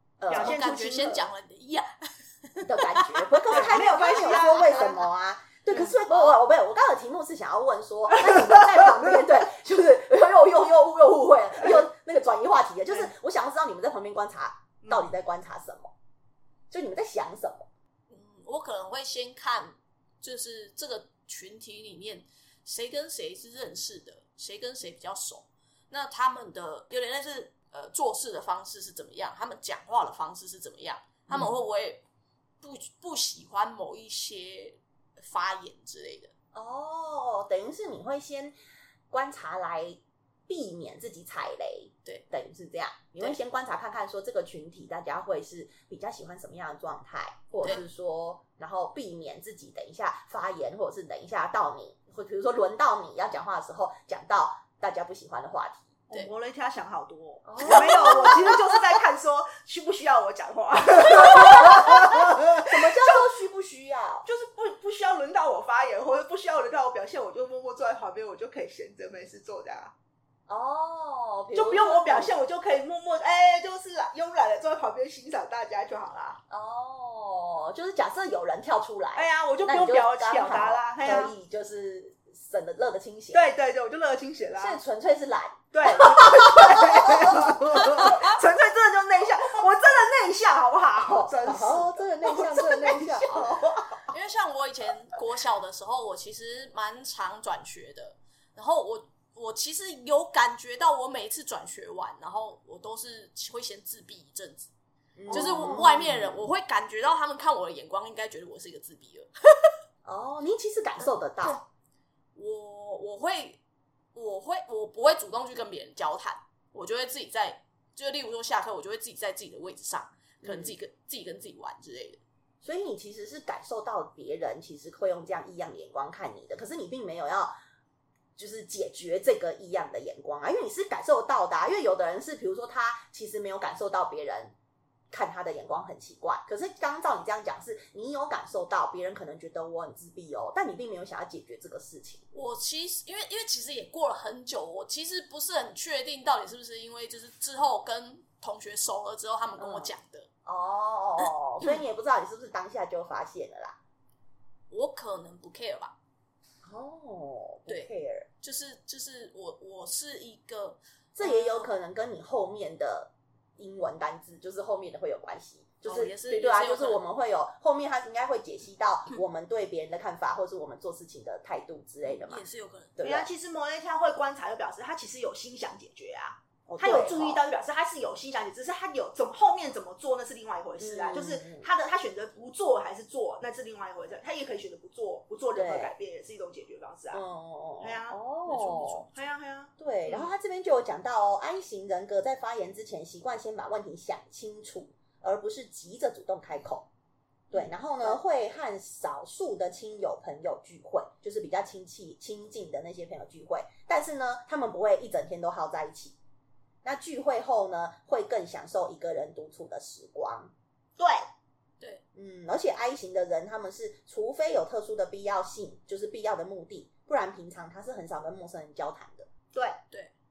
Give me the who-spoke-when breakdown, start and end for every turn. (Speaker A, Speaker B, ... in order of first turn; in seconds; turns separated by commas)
Speaker A: 0.2-0.6, Speaker B: 0.3-1.3, Speaker C: 0.3-3.4, Speaker A: 2.6-15.9, Speaker B: 3.5-5.1, Speaker A: 16.7-17.7, Speaker C: 18.1-32.0, Speaker C: 32.6-36.3, Speaker A: 36.5-38.5, Speaker A: 39.1-56.0, Speaker B: 56.1-63.2, Speaker A: 57.5-58.6, Speaker A: 61.1-64.3, Speaker B: 64.2-69.9, Speaker A: 70.5-72.3, Speaker B: 71.5-76.4, Speaker A: 76.5-83.5, Speaker B: 79.2-81.3, Speaker B: 83.3-84.8, Speaker A: 84.5-88.2, Speaker B: 85.7-94.0, Speaker A: 91.0-93.6, Speaker C: 94.1-104.7, Speaker A: 105.2-106.5, Speaker B: 105.3-105.8, Speaker C: 105.3-109.7, Speaker A: 110.0-111.6, Speaker C: 112.4-113.6, Speaker C: 114.2-122.2, Speaker A: 120.4-120.8, Speaker A: 122.6-127.5, Speaker A: 128.4-134.5, Speaker A: 135.1-142.2, Speaker C: 142.3-150.3, Speaker A: 149.6-149.9, Speaker A: 150.4-153.8, Speaker C: 154.7-155.9, Speaker A: 156.6-158.3, Speaker C: 157.7-161.7, Speaker A: 161.2-172.4, Speaker C: 165.8-167.0, Speaker C: 172.1-172.9, Speaker A: 173.0-173.3, Speaker B: 173.0-187.2, Speaker A: 176.7-177.4, Speaker A: 180.8-181.7, Speaker A: 185.5-185.9, Speaker A: 187.1-189.1, Speaker B: 187.8-188.2, Speaker C: 188.5-189.0, Speaker B: 189.1-190.3, Speaker A: 189.8-196.9, Speaker A: 197.5-206.2, Speaker B: 197.5-198.2, Speaker A: 206.8-210.5, Speaker B: 211.0-211.2, Speaker A: 212.2-219.3, Speaker B: 219.5-219.8